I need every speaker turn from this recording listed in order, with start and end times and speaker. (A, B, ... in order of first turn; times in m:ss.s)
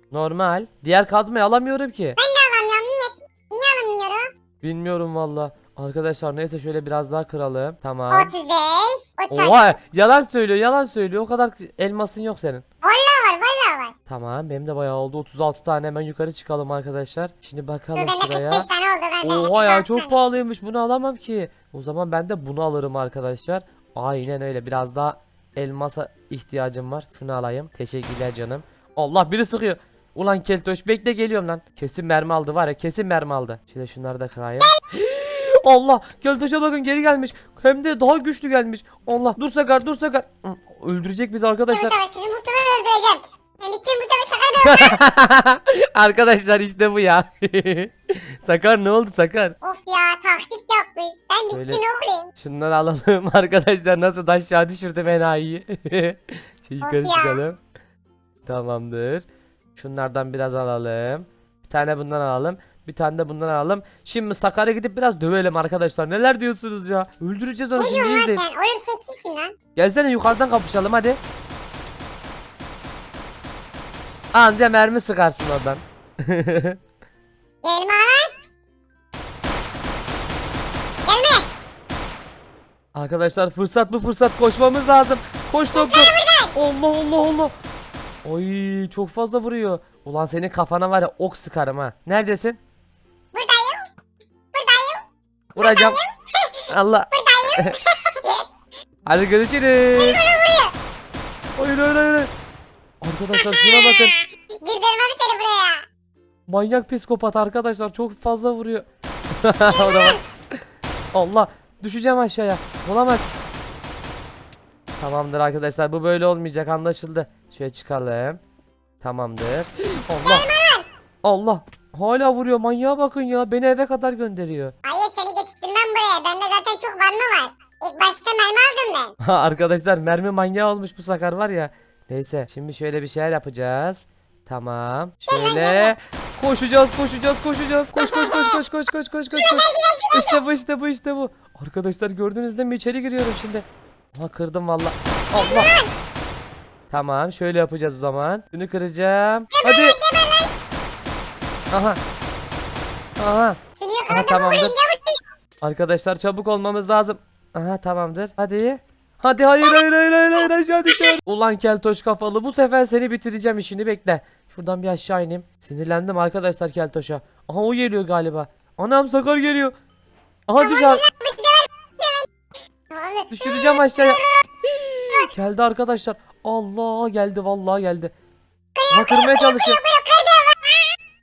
0:00.1-0:02.2 A
0:02.2-0:04.3 B
0:04.6-0:08.3 A
0:08.1-0:09.8 B
0:09.3-0:12.6 A
0:12.8-0:13.9 B
0:14.1-0:18.7 A
0:18.0-0:20.2 B
0:19.2-0:42.0 A
0:41.7-0:45.0 B
0:44.6-0:49.6 A
0:49.6-0:52.3 B
0:51.5-0:51.8 A
0:52.4-0:57.6 A
0:56.8-0:57.4 B
0:58.5-0:59.2 A
0:59.8-1:08.4 A
1:07.8-1:09.5 B
1:09.8-1:11.2 A
1:14.3-1:16.8 A
1:17.6-1:18.3 B
1:21.1-1:21.5 B
1:23.0-1:27.5 A
1:25.7-1:26.6 B
1:28.2-1:32.6 A
1:33.3-1:33.8 B
1:34.5-1:35.0 B
1:35.6-1:36.1 B
1:35.6-1:36.0 A
1:36.7-1:37.8 A
1:37.1-1:38.4 B
1:39.1-1:40.2 A
1:40.0-1:40.7 B
1:41.6-1:42.3 A
1:43.0-1:44.2 A
1:43.4-1:44.1 B
1:44.6-1:45.9 B
1:46.5-1:48.9 A
1:49.4-1:50.2 A
1:49.7-1:50.2 B
1:51.1-1:53.3 A
1:55.0-1:58.4 A
1:59.0-2:00.5 A
2:00.2-2:00.9 B
2:01.2-2:04.7 A
2:04.8-2:09.2 B
2:09.2-2:25.7 A
2:15.3-2:16.0 B
2:18.0-2:18.6 B
2:19.3-2:20.4 B
2:25.4-2:25.9 B
2:26.9-2:30.0 A
2:29.5-2:30.5 B
2:31.7-2:32.0 A
2:33.2-2:33.6 A
2:33.8-2:35.2 B
2:34.1-2:34.8 A
2:35.6-2:49.7 A
2:40.4-2:41.2 B
2:50.5-2:51.0 A
2:50.6-2:52.3 B
2:52.9-2:54.4 B
2:53.3-2:54.2 A
2:55.0-2:58.1 A
2:58.8-3:00.9 B
2:58.9-2:59.8 A